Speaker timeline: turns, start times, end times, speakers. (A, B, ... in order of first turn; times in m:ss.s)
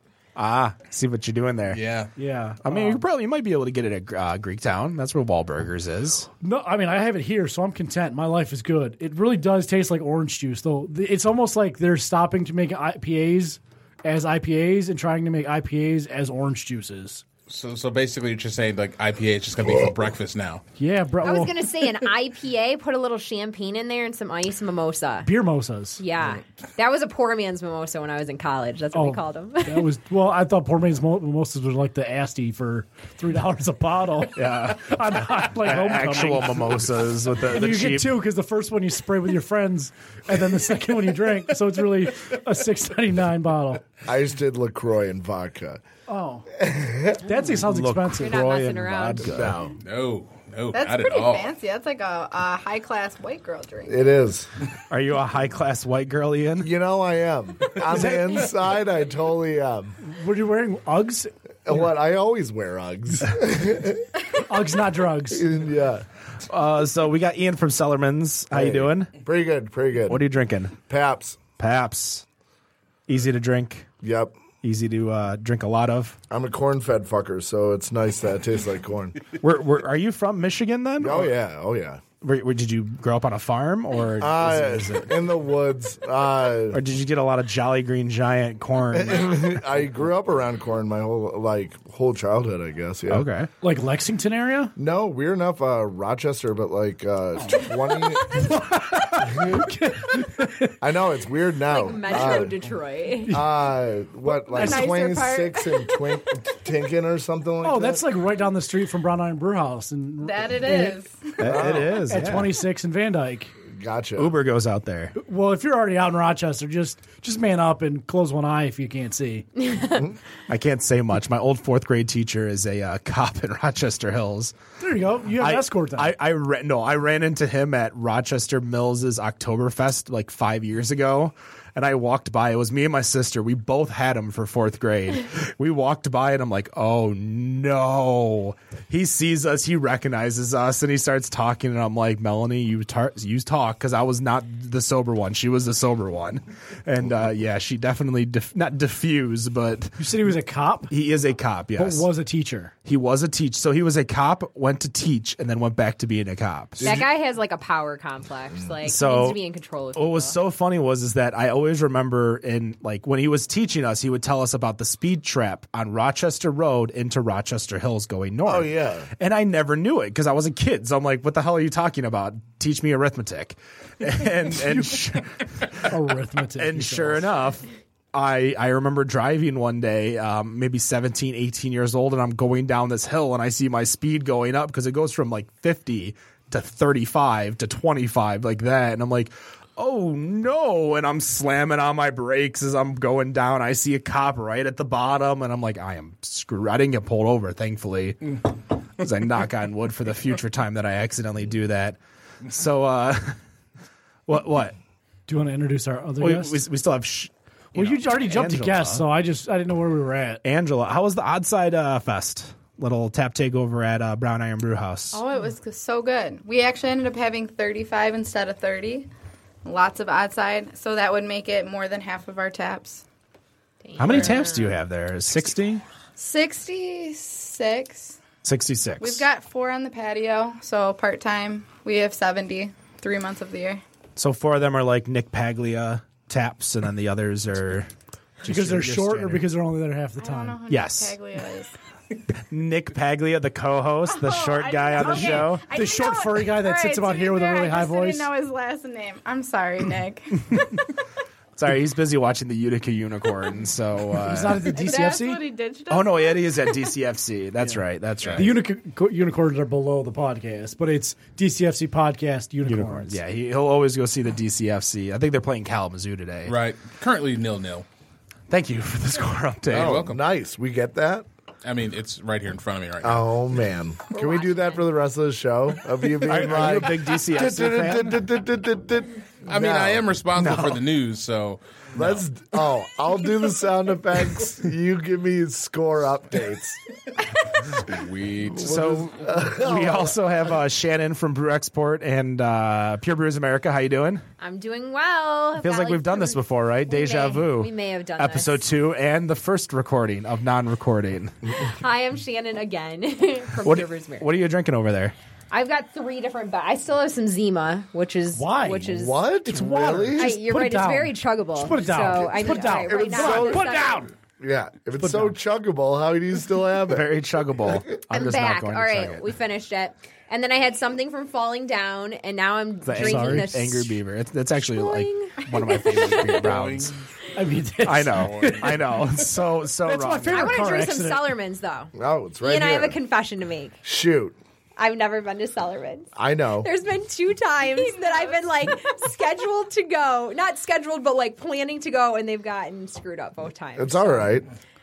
0:00.4-0:01.8 A
0:01.7-0:02.1 B
0:02.2-0:03.0 C
0:02.6-0:06.3 A
0:06.4-0:17.2 C
0:17.5-0:20.6 B
0:20.8-0:21.7 C
0:21.2-0:25.3 D
0:25.2-0:26.0 C
0:26.0-0:29.9 D
0:28.9-0:36.8 C
0:34.4-0:38.2 A
0:37.5-0:43.9 C
0:44.0-0:45.8 E
0:46.1-0:46.4 C
0:46.5-0:47.2 E
0:47.2-0:48.4 C
0:47.3-0:49.6 A
0:48.2-0:49.3 D
0:49.2-0:49.7 E
0:49.8-0:51.5 B
0:50.7-0:54.0 F
0:53.9-0:54.5 E
0:54.9-0:56.7 A
0:56.6-1:00.0 E
0:57.9-0:58.4 C
1:00.0-1:01.3 C
1:01.6-1:04.2 E
1:04.3-1:05.4 C
1:05.3-1:06.0 E
1:06.5-1:09.1 A
1:08.5-1:10.2 E
1:10.1-1:10.8 A
1:10.9-1:11.4 E
1:11.6-1:12.2 A
1:13.1-1:13.9 A
1:14.0-1:14.4 E
1:14.6-1:16.2 A
1:16.3-1:19.2 E
1:19.4-1:21.3 A
1:21.0-1:22.0 E
1:22.2-1:25.1 A
1:24.2-1:26.8 E
1:26.7-1:29.6 A
1:28.9-1:33.3 E
1:33.1-1:33.5 A
1:33.6-1:34.7 C
1:34.8-1:38.6 E
1:38.3-1:40.7 C
1:39.2-1:39.7 E
1:40.8-1:42.5 E
1:41.7-1:43.4 D
1:43.3-1:48.0 E
1:44.3-1:46.4 F
1:44.5-1:44.9 C
1:47.6-1:51.0 C
1:50.2-1:51.5 F
1:51.4-1:52.5 A
1:51.4-1:52.0 E
1:52.1-1:53.5 C
1:53.7-1:54.3 E
1:54.2-1:55.1 A
1:55.2-1:59.5 C
1:59.7-2:00.0 D
2:00.5-2:04.5 A
2:04.8-2:06.2 C
2:05.4-2:30.1 A
2:30.0-2:30.9 C
2:30.9-2:32.1 A
2:31.8-2:32.7 C
2:32.8-2:37.0 A
2:36.8-2:37.1 E
2:36.8-2:40.4 D
2:38.8-2:39.4 A
2:39.9-2:56.0 A
2:48.4-2:49.1 E
2:54.5-2:55.0 C
2:55.8-2:57.3 C
2:56.6-3:23.4 A
3:24.3-3:24.8 A
3:25.3-3:26.6 C
3:26.2-3:29.0 A
3:27.7-3:30.4 C
3:30.4-3:35.2 A
3:35.1-3:39.1 F
3:39.6-3:43.0 F
3:43.8-3:44.7 D
3:44.0-3:45.8 A
3:44.1-3:44.4 F
3:46.2-3:48.2 F
3:48.4-3:49.2 A
3:49.0-3:53.8 F
3:54.2-3:57.9 A
3:58.4-3:59.4 A
3:58.4-4:00.6 C
4:00.2-4:01.7 F
4:00.7-4:01.2 A
4:02.5-4:05.7 A
4:04.0-4:10.6 F
4:05.0-4:08.3 C
4:11.5-4:14.8 A
4:14.2-4:15.4 C
4:14.7-4:16.9 F
4:15.9-4:18.6 A
4:18.2-4:18.5 B
4:18.4-4:23.2 C
4:22.7-4:26.6 A
4:26.5-4:27.8 B
4:28.5-4:30.0 A
4:29.7-4:31.2 E
4:29.7-4:30.2 B
4:31.6-4:33.3 B
4:33.0-4:40.1 E
4:34.1-4:34.8 D
4:36.2-4:38.2 A
4:39.5-4:42.2 B
4:40.3-4:40.8 A
4:41.9-4:46.8 E
4:47.5-4:49.0 B
4:48.5-4:50.2 E
4:48.6-4:54.2 A
4:54.4-4:58.6 D
4:55.6-5:01.3 A
5:01.6-5:04.3 D
5:03.6-5:05.1 A
5:05.5-5:09.2 D
5:08.3-5:08.9 C
5:08.9-5:10.4 E
5:09.5-5:14.1 C
5:10.1-5:14.1 D
5:12.4-5:13.8 E
5:14.4-5:17.1 E
5:15.0-5:15.3 C
5:16.9-5:19.2 A
5:18.1-5:24.0 D
5:22.8-5:26.9 A
5:22.9-5:23.5 C
5:24.6-5:26.4 D
5:26.3-5:27.0 B
5:27.4-5:28.7 C
5:27.8-5:30.6 A
5:28.0-5:29.2 B
5:29.8-5:31.3 C
5:30.3-5:33.8 D
5:31.9-5:33.0 E
5:33.8-5:34.4 E
5:34.8-5:36.1 D
5:36.1-5:36.7 E
5:36.6-5:44.3 D
5:37.7-5:38.7 F
5:43.8-5:44.4 E